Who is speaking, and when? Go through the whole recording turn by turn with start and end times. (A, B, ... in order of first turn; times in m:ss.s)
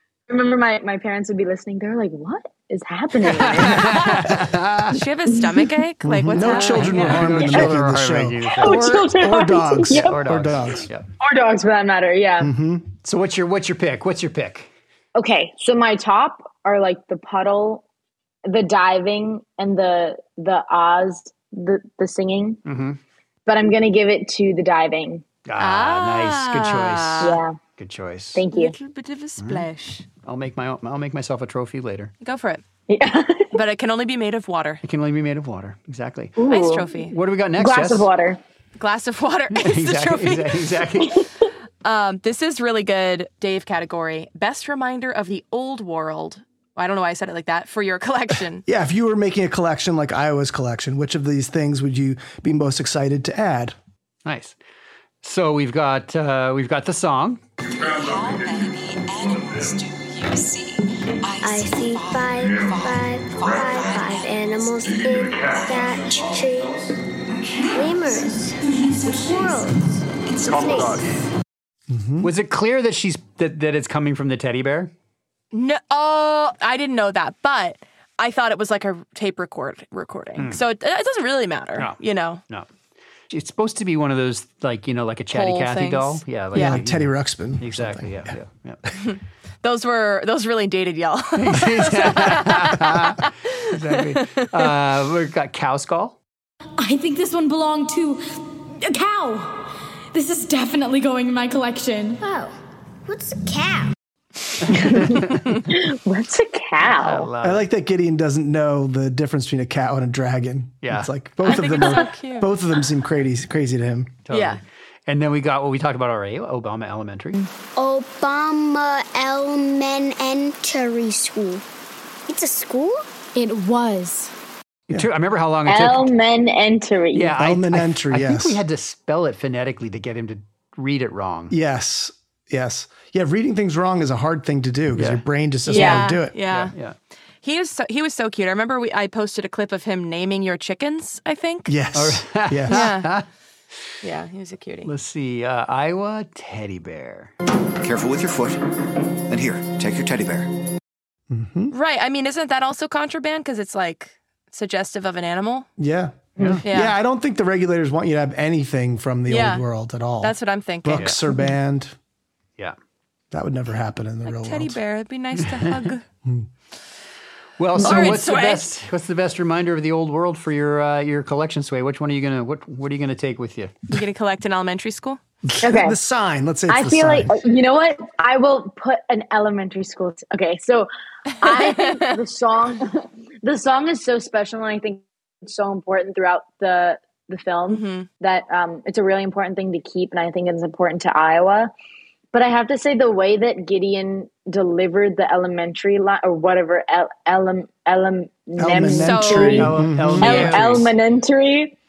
0:00.3-0:04.2 A
0:03.3-0:05.0 B
0:03.7-0:04.2 C
0:04.9-0:07.3 C
0:06.0-0:10.9 D
0:06.3-0:09.1 B
0:07.4-0:07.7 A
0:08.6-0:10.1 A
0:09.9-0:11.0 B
0:11.2-0:12.5 A
0:12.4-0:12.9 D
0:13.0-0:14.7 B
0:15.1-0:17.8 A
0:18.4-0:22.6 A
0:22.6-0:23.0 B
0:23.5-0:25.2 A
0:25.4-0:28.4 B
0:25.6-0:27.4 C
0:27.2-0:27.6 A
0:28.3-0:28.7 A
0:28.5-0:30.0 C
0:29.4-0:29.7 B
0:30.2-0:32.1 B
0:32.2-0:32.6 C
0:32.9-0:33.5 A
0:33.5-0:34.8 C
0:34.8-0:36.4 B
0:36.4-0:36.9 A
0:36.4-0:37.1 C
0:37.0-0:38.1 B
0:37.6-0:38.4 A
0:38.8-0:40.6 C
0:39.5-0:41.2 B
0:41.8-0:48.6 C
0:48.6-0:53.8 D
0:54.2-0:54.6 B
0:55.2-0:57.4 B
0:57.7-0:59.8 E
1:01.4-1:06.8 F
1:02.4-1:03.8 E
1:04.8-1:06.3 E
1:07.7-1:11.0 F
1:10.4-1:11.1 E
1:11.9-1:12.3 D
1:12.2-1:14.9 B
1:15.5-1:22.4 C
1:23.3-1:28.8 B
1:25.3-1:26.8 C
1:26.5-1:28.3 D
1:29.0-1:34.7 C
1:31.4-1:36.2 B
1:36.8-1:38.2 G
1:38.8-1:42.2 G
1:42.2-1:42.5 F
1:43.0-1:43.9 F
1:44.6-1:45.4 B
1:44.7-1:47.3 A
1:46.9-1:47.6 B
1:47.4-1:54.1 D
1:50.8-1:51.1 B
1:51.4-1:52.5 C
1:54.2-1:57.4 B
1:54.3-1:54.6 C
1:57.8-2:01.6 F
2:02.3-2:03.0 F
2:03.3-2:04.3 G
2:04.9-2:06.1 B
2:05.6-2:07.3 A
2:07.1-2:11.5 B
2:07.3-2:08.6 D
2:11.5-2:16.3 D
2:14.9-2:15.2 B
2:15.7-2:16.7 C
2:16.4-2:17.0 B
2:17.4-2:21.7 C
2:21.7-2:22.9 D
2:21.9-2:23.2 B
2:22.7-2:23.1 C
2:24.0-2:24.9 C
2:24.8-2:27.3 B
2:27.8-2:28.6 H
2:29.3-2:30.5 H
2:31.3-2:31.7 D
2:31.7-2:35.7 C
2:35.8-2:41.9 D
2:36.4-2:36.6 B
2:36.6-2:37.0 C
2:39.3-2:39.6 C
2:40.2-2:41.2 C
2:43.3-2:44.8 D
2:44.2-2:46.0 C
2:45.4-2:45.8 B
2:47.6-2:53.8 B
2:47.8-2:48.7 C
2:47.8-2:48.1 A
2:53.9-2:55.2 C
2:55.5-2:57.3 D
2:55.6-2:56.0 A
2:56.7-3:00.9 A
3:01.4-3:11.7 A
3:01.5-3:02.1 C
3:07.7-3:08.1 C
3:12.3-3:21.8 A
3:18.6-3:20.6 D
3:18.9-3:19.7 C
3:19.4-3:20.9 B
3:20.2-3:20.7 C